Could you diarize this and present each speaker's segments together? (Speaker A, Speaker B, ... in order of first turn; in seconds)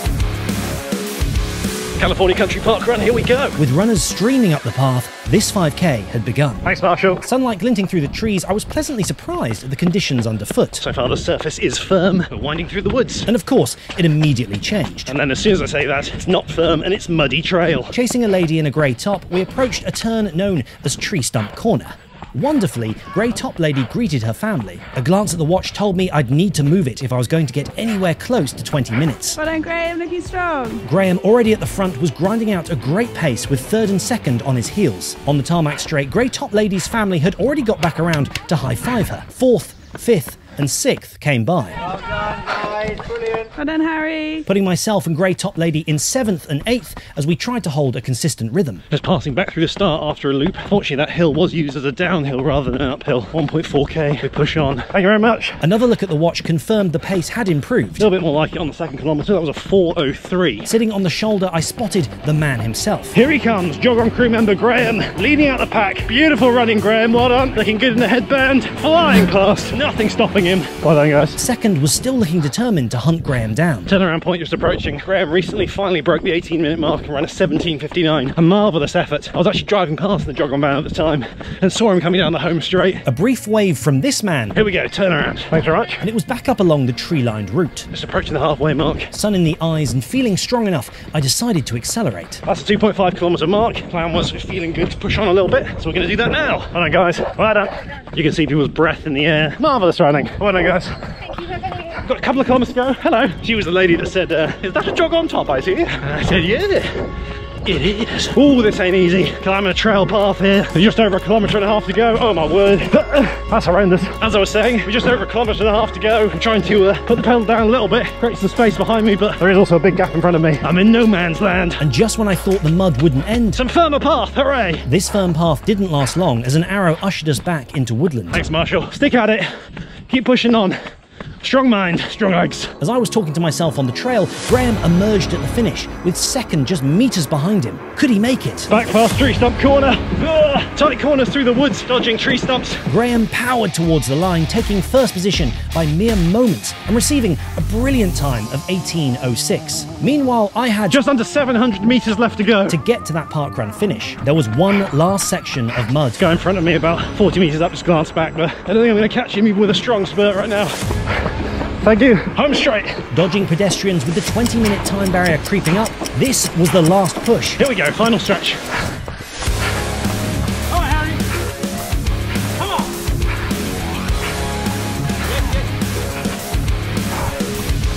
Speaker A: 2.0-3.6, 6.6-7.3, 10.8-13.3, 15.1-17.9, 48.9-55.6, 58.0-60.7, 63.1-71.4, 73.9-83.0, 84.5-86.0, 87.9-89.1, 92.4-101.1, 101.8-107.1, 107.7-121.8, 123.5-124.9, 128.3-129.5, 130.1-130.8, 131.4-132.8, 138.7-142.9, 150.9-152.8, 156.2-160.8, 161.8-163.1, 167.6-168.6
Speaker B: 3.6-6.7, 7.2-10.8, 13.3-15.1, 17.9-29.4, 30.8-41.8, 44.5-48.8, 55.6-58.1, 60.7-63.2, 71.4-73.9, 83.1-84.6, 86.0-87.9, 89.1-92.4, 121.8-123.6, 124.9-128.4, 132.8-138.7, 142.9-151.0, 152.7-156.3, 163.1-167.6
Speaker C: 29.4-30.8, 43.6-44.5